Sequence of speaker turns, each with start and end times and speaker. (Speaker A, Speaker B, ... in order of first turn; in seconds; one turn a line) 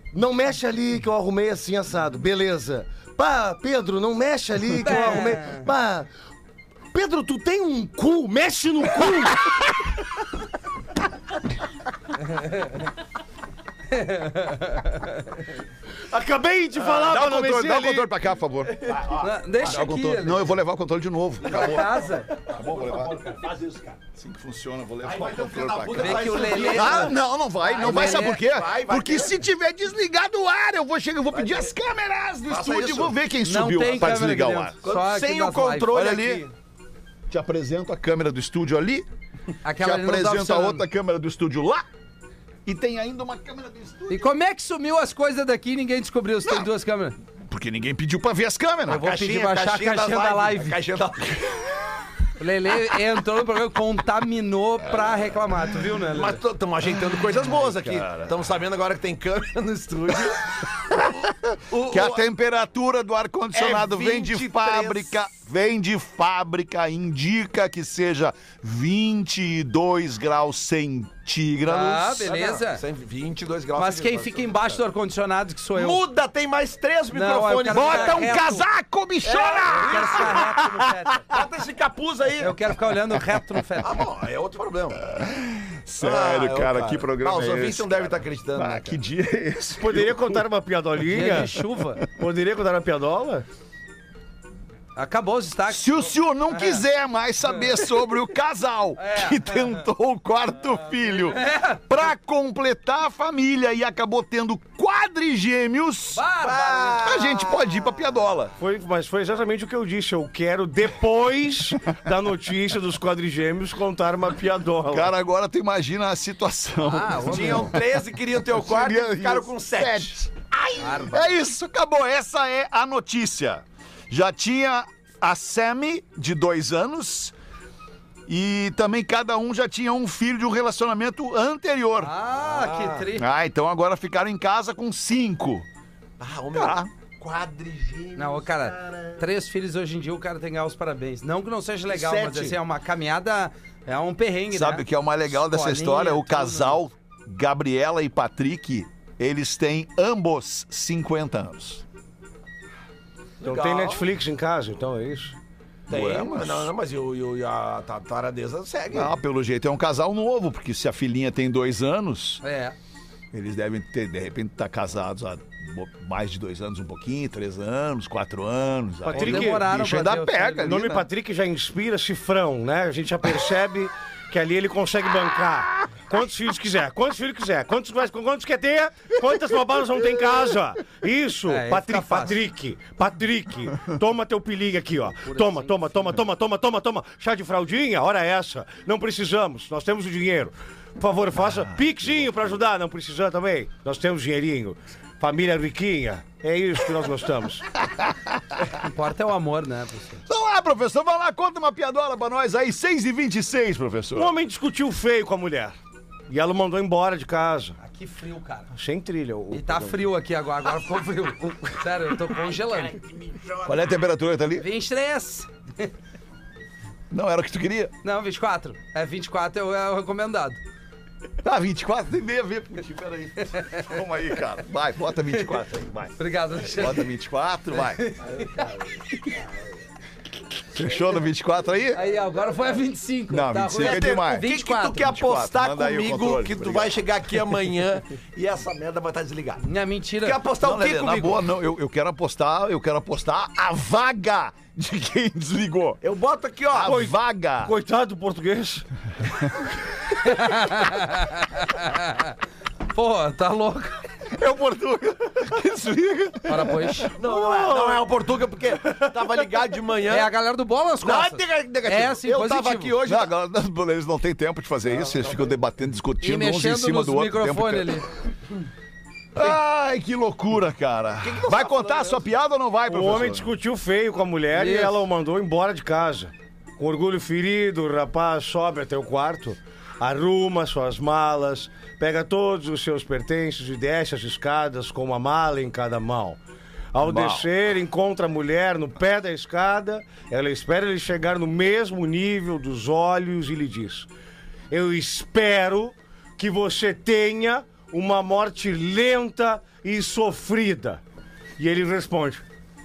Speaker A: 0.1-6.1
Speaker B: 4.8-5.7
Speaker A: 6.9-9.7
Speaker B: 13.9-15.2
Speaker A: 16.1-18.1
Speaker C: 16.8-23.2
Speaker D: 18.8-19.7
Speaker B: 19.2-20.5
Speaker D: 21.4-24.0
Speaker B: 21.5-22.3
Speaker C: 24.1-34.8
Speaker D: 25.0-29.4
Speaker B: 26.0-27.2
Speaker B: 27.8-28.4
Speaker D: 31.3-31.7
Speaker D: 32.5-33.2
Speaker B: 33.4-36.0
Speaker D: 34.8-36.5
Speaker C: 35.9-36.4
Speaker C: 37.3-39.1
Speaker B: 39.6-40.9
Speaker C: 39.8-41.9
Speaker C: 42.7-44.3
Speaker B: 44.1-47.2
Speaker C: 47.5-49.1
Speaker B: 48.9-50.8
Speaker D: 48.9-51.7
Speaker B: 52.4-56.4
Speaker D: 56.1-61.1
Speaker C: 57.4-58.4
Speaker D: 61.7-62.2
Speaker C: 61.9-72.2
Speaker D: 63.5-65.2
Speaker B: 71.7-72.8
Speaker D: 72.3-74.8
Speaker B: 73.8-76.0
Speaker D: 75.8-78.4
Speaker B: 77.1-78.7
Speaker C: 77.7-80.6
Speaker D: 79.2-80.4
Speaker B: 79.7-81.3
Speaker D: 81.3-82.5
Speaker B: 82.4-84.0
Speaker D: 83.8-85.0
Speaker C: 85.1-90.5
Speaker D: 86.0-89.0
Speaker A: 89.8-91.5
Speaker B: 91.1-92.0
Speaker C: 91.2-91.7
Speaker A: 92.2-93.5
Speaker B: 95.0-96.8
Speaker C: 95.7-106.2
Speaker B: 99.0-99.8
Speaker B: 101.3-101.8
Speaker B: 106.1-107.1
Speaker D: 106.4-107.8
Speaker C: 107.0-108.5
Speaker A: 108.6-115.1
Speaker C: 114.9-117.8
Speaker B: 116.9-117.7
Speaker D: 117.3-121.1
Speaker C: 118.5-120.3
Speaker B: 120.8-121.3
Speaker C: 121.1-127.3
Speaker C: 128.3-132.1
Speaker B: 132.0-133.3
Speaker D: 132.3-133.1
Speaker C: 133.2-135.7
Speaker D: 136.2-139.2
Speaker C: 136.5-136.9
Speaker B: 138.2-146.8
Speaker D: 141.9-142.6
Speaker C: 144.5-151.8
Speaker D: 153.4-154.1
Speaker A: 153.4-155.4
Speaker D: 155.9-159.1
Speaker C: 155.9-156.7
Speaker C: 158.9-162.4
Speaker B: 162.4-162.8
Speaker C: 163.3-171.1
Speaker B: 169.1-170.7
Speaker A: 169.1-197.7
Speaker B: 181.5-182.4
Speaker B: 185.2-186.2
Speaker C: 191.6-192.3
Speaker B: 198.7-200.2
Speaker C: 200.3-204.3
Speaker A: 204.2-205.8
Speaker A: 206.3-207.8
Speaker B: 207.8-208.7
Speaker A: 208.7-210.0
Speaker B: 209.5-213.0
Speaker C: 213.6-214.7
Speaker B: 214.6-215.9
Speaker C: 217.1-217.9
Speaker B: 218.0-220.6
Speaker C: 221.4-228.0
Speaker B: 226.2-227.1
Speaker B: 227.7-228.7
Speaker C: 230.7-232.0
Speaker B: 231.9-235.0
Speaker C: 233.3-237.0
Speaker D: 233.8-239.6
Speaker B: 239.6-240.4
Speaker D: 240.2-241.4
Speaker C: 240.6-246.0
Speaker D: 246.0-247.0
Speaker C: 246.7-247.8
Speaker A: 246.8-248.9
Speaker B: 250.2-252.4
Speaker B: 252.9-254.0
Speaker C: 254.3-257.1
Speaker B: 256.5-257.1
Speaker D: 257.2-260.3
Speaker A: 257.2-258.0
Speaker B: 260.1-262.9
Speaker D: 261.0-263.3
Speaker C: 263.0-268.0
Speaker D: 265.0-265.3
Speaker B: 266.2-268.1
Speaker C: 269.4-273.5
Speaker D: 271.2-272.2
Speaker A: 272.9-286.4
Speaker B: 274.5-275.0
Speaker A: 286.9-294.1
Speaker C: 287.0-287.5
Speaker A: 294.7-301.0
Speaker A: 301.6-302.4